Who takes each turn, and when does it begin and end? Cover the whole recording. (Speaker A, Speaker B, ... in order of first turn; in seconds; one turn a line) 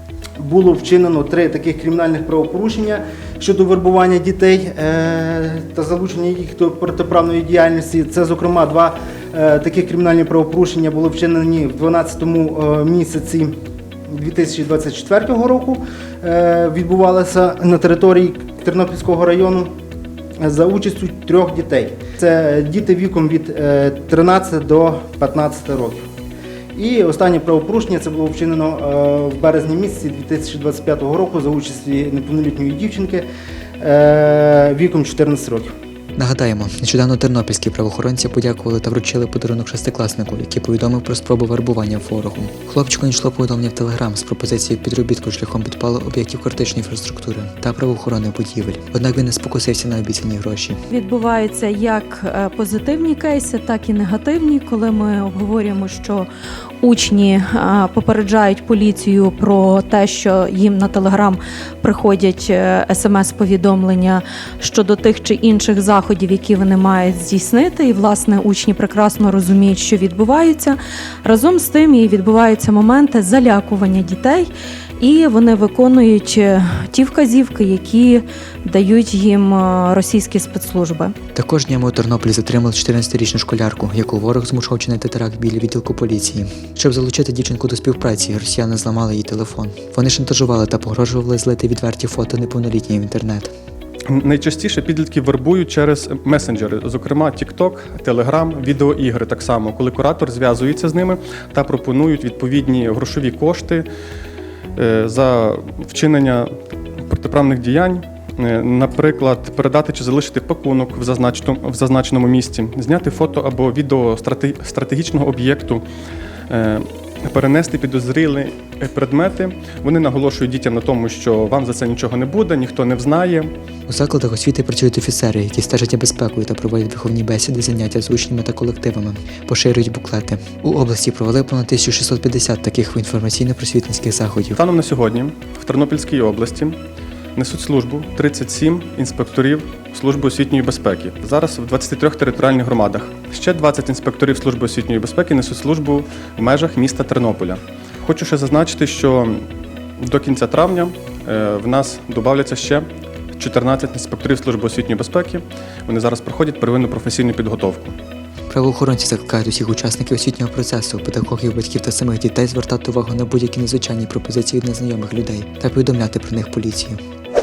Speaker A: 0.4-13.5
Speaker A: 14.1-19.7
Speaker A: 20.4-26.1
Speaker A: 26.7-33.2
Speaker A: 33.8-35.7
Speaker B: 36.2-50.8
Speaker C: 50.9-56.3
Speaker C: 56.8-74.5
Speaker C: 75.0-81.1
Speaker B: 81.3-93.5
Speaker D: 94.1-103.8
Speaker D: 104.7-106.5
Speaker D: 107.1-115.8
Speaker D: 116.5-123.5
Speaker B: 123.9-134.6
Speaker D: 134.6-136.8
Speaker D: 137.3-149.4
Speaker D: 150.0-152.8
Speaker D: 153.3-157.9
Speaker B: 158.5-167.0